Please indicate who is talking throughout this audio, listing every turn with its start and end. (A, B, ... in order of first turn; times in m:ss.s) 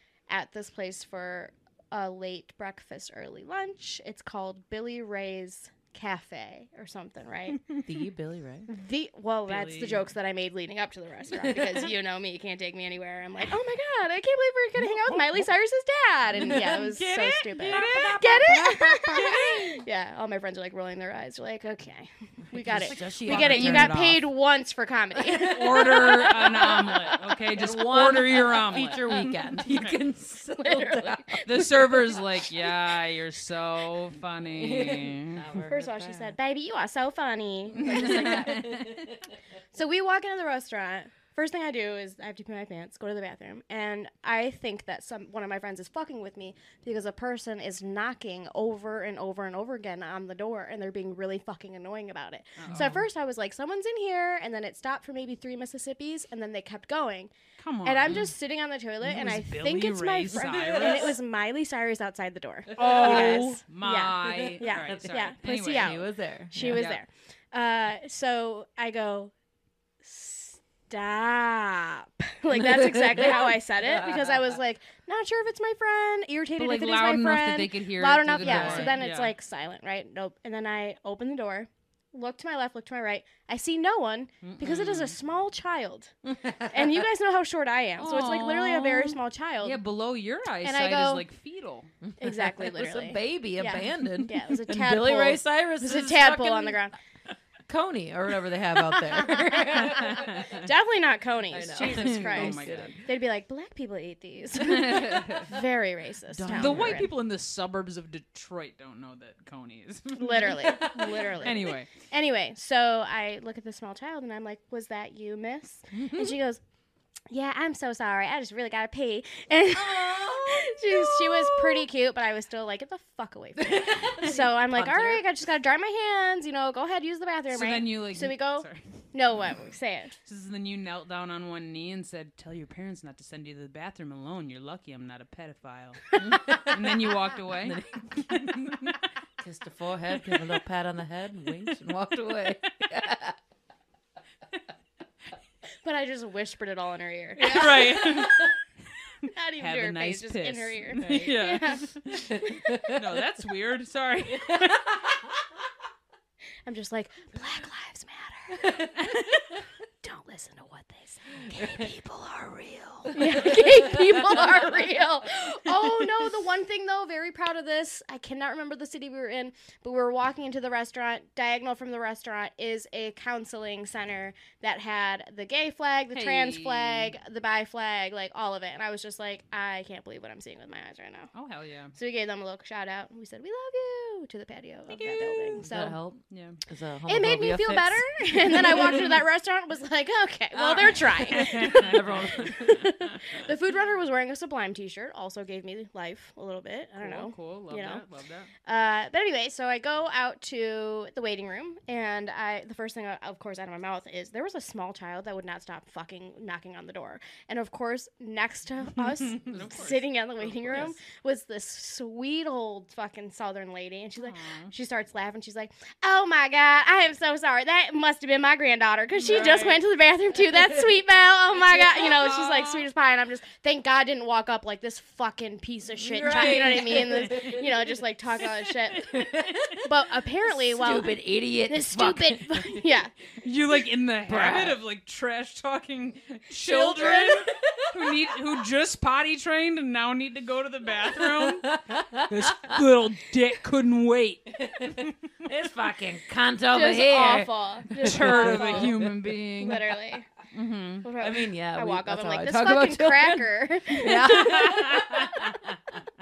0:00.3-0:07.6 A
0:07.8-0:08.7 B
0:08.7-0:26.6 A
0:09.5-0:10.0 C
0:16.4-0:19.8 B
0:16.4-0:19.8 C
0:22.5-0:24.2 B
0:22.7-0:24.2 C
0:25.2-0:31.6 B
0:25.4-0:30.0 C
0:30.6-0:32.2 A
0:31.4-0:35.5 C
0:34.4-0:36.3 B
0:35.7-0:38.7 A
0:37.8-0:39.0 C
0:37.8-0:39.4 B
0:39.7-0:57.3 A
0:52.6-0:53.0 C
0:52.7-0:53.0 B
0:57.6-0:58.3 C
0:57.8-1:09.3 A
0:59.0-1:01.2 C
1:00.3-1:01.2 B
1:02.7-1:03.6 B
1:02.8-1:06.0 C
1:04.2-1:06.9 B
1:06.6-1:07.0 C
1:10.0-1:26.1 A
1:12.5-1:14.6 B
1:16.6-1:19.3 C
1:18.4-1:19.0 B
1:24.4-1:25.2 C
1:26.2-1:27.1 B
1:26.7-1:29.8 A
1:28.0-1:31.9 C
1:30.6-1:31.2 A
1:32.0-1:36.8 B
1:32.2-1:37.0 A
1:37.7-1:40.5 B
1:39.1-1:47.1 A
1:39.8-1:40.6 C
1:41.5-1:43.0 B
1:41.7-1:43.0 C
1:44.6-1:45.5 C
1:46.3-1:47.1 B
1:46.5-1:51.9 C
1:50.1-1:56.6 A
1:50.5-1:51.6 B
1:55.9-1:56.4 B
1:57.3-2:10.2 A
1:59.7-2:01.9 B
2:03.6-2:05.2 B
2:07.5-2:08.8 C
2:10.3-2:19.0 C
2:16.2-2:18.9 B
2:19.4-2:23.4 B
2:25.8-2:28.5 A
2:27.4-2:28.5 C
2:27.4-2:28.3 B
2:29.2-2:32.8 A
2:29.6-2:35.0 C
2:31.0-2:31.3 B
2:32.3-2:33.1 B
2:34.3-2:35.2 B
2:36.6-2:39.2 A
2:38.6-2:38.9 B
2:40.0-2:41.9 A
2:41.5-2:41.9 B
2:41.6-2:43.1 C
2:43.0-2:44.6 B
2:43.1-3:01.3 A
2:56.1-2:57.1 C
3:01.3-3:01.9 C
3:01.9-3:06.0 A
3:04.9-3:05.7 C
3:05.6-3:09.2 B
3:06.3-3:06.6 C
3:07.1-3:18.0 A
3:10.5-3:12.9 B
3:11.3-3:13.2 C
3:17.0-3:18.5 C
3:18.6-3:53.1 A
3:29.0-3:31.0 C
3:34.2-3:34.7 C
3:39.2-3:39.8 C
3:41.8-3:42.8 C
3:46.0-3:48.0 B
3:46.3-3:46.7 C
3:48.9-3:49.9 B
3:50.4-3:52.9 B
3:53.4-4:05.2 C
3:54.3-3:54.8 B
3:56.6-3:57.5 A
3:56.7-3:58.5 B
4:01.2-4:02.8 B
4:04.6-4:09.4 B
4:06.7-4:09.0 A
4:08.0-4:09.9 C
4:09.6-4:10.3 A
4:10.5-4:11.0 C
4:11.0-4:15.5 A
4:11.2-4:16.0 B
4:14.1-4:15.4 C